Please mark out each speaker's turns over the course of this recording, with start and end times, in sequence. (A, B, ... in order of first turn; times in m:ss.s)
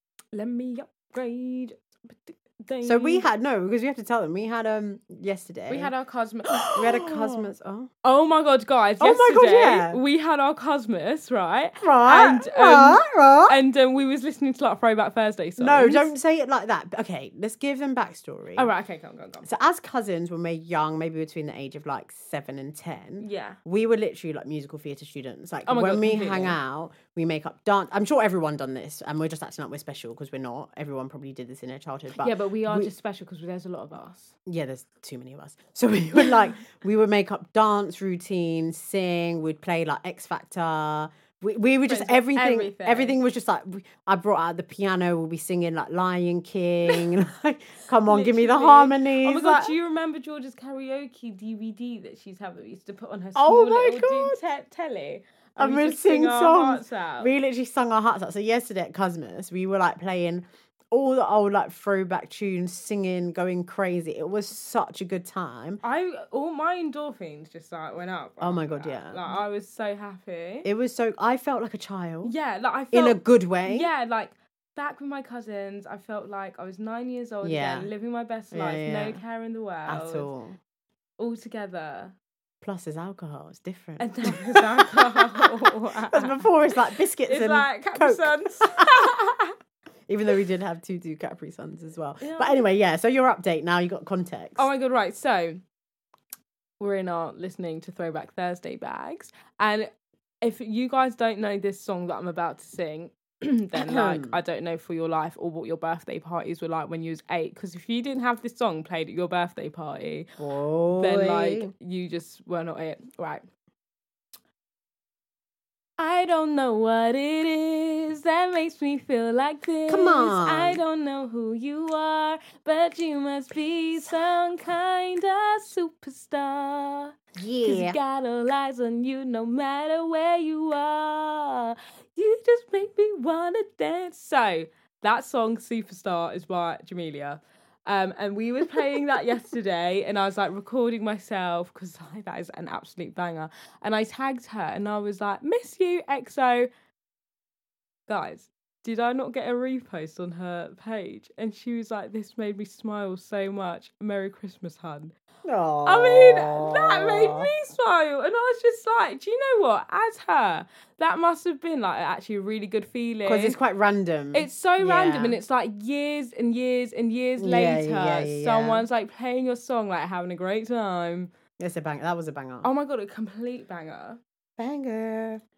0:00.3-0:03.2 A
0:02.8-0:05.9 B
0:05.7-0:07.5 A
0:06.5-0:07.9 B
0:08.0-0:16.1 A
0:09.0-0:10.0 B
0:11.8-0:13.6 B
0:15.6-0:18.7 B
0:18.6-0:19.5 A
0:19.4-0:32.9 B
0:23.2-0:23.6 A
0:25.7-0:26.6 A
0:32.1-0:34.3 A
0:34.4-0:49.7 B
0:41.9-0:43.2 A
0:48.0-0:57.3 A
0:53.4-0:54.4 B
0:55.6-1:05.8 B
1:05.8-1:10.7 A
1:08.4-1:09.4 B
1:10.6-1:12.3 B
1:12.2-1:20.3 A
1:12.9-1:13.9 B
1:17.4-1:17.9 B
1:18.5-1:19.2 B
1:19.8-1:20.6 B
1:21.2-1:22.2 A
1:22.6-1:25.5 B
1:24.0-1:26.4 A
1:26.1-1:29.1 B
1:27.2-1:29.5 A
1:30.1-1:34.7 B
1:32.2-1:32.6 A
1:34.6-1:35.6 A
1:36.8-1:39.9 A
1:40.4-1:50.3 A
1:43.7-1:44.4 B
1:50.4-1:51.7 B
1:51.0-1:53.4 A
1:56.0-2:26.7 A
1:59.9-2:00.8 B
2:07.4-2:08.0 B
2:28.1-2:35.1 A
2:35.4-2:37.5 B
2:35.8-2:43.6 A
2:43.2-2:45.4 B
2:44.3-2:51.3 A
2:47.4-2:48.8 B
2:51.6-2:52.7 B
2:52.6-2:54.2 A
2:54.6-2:55.4 B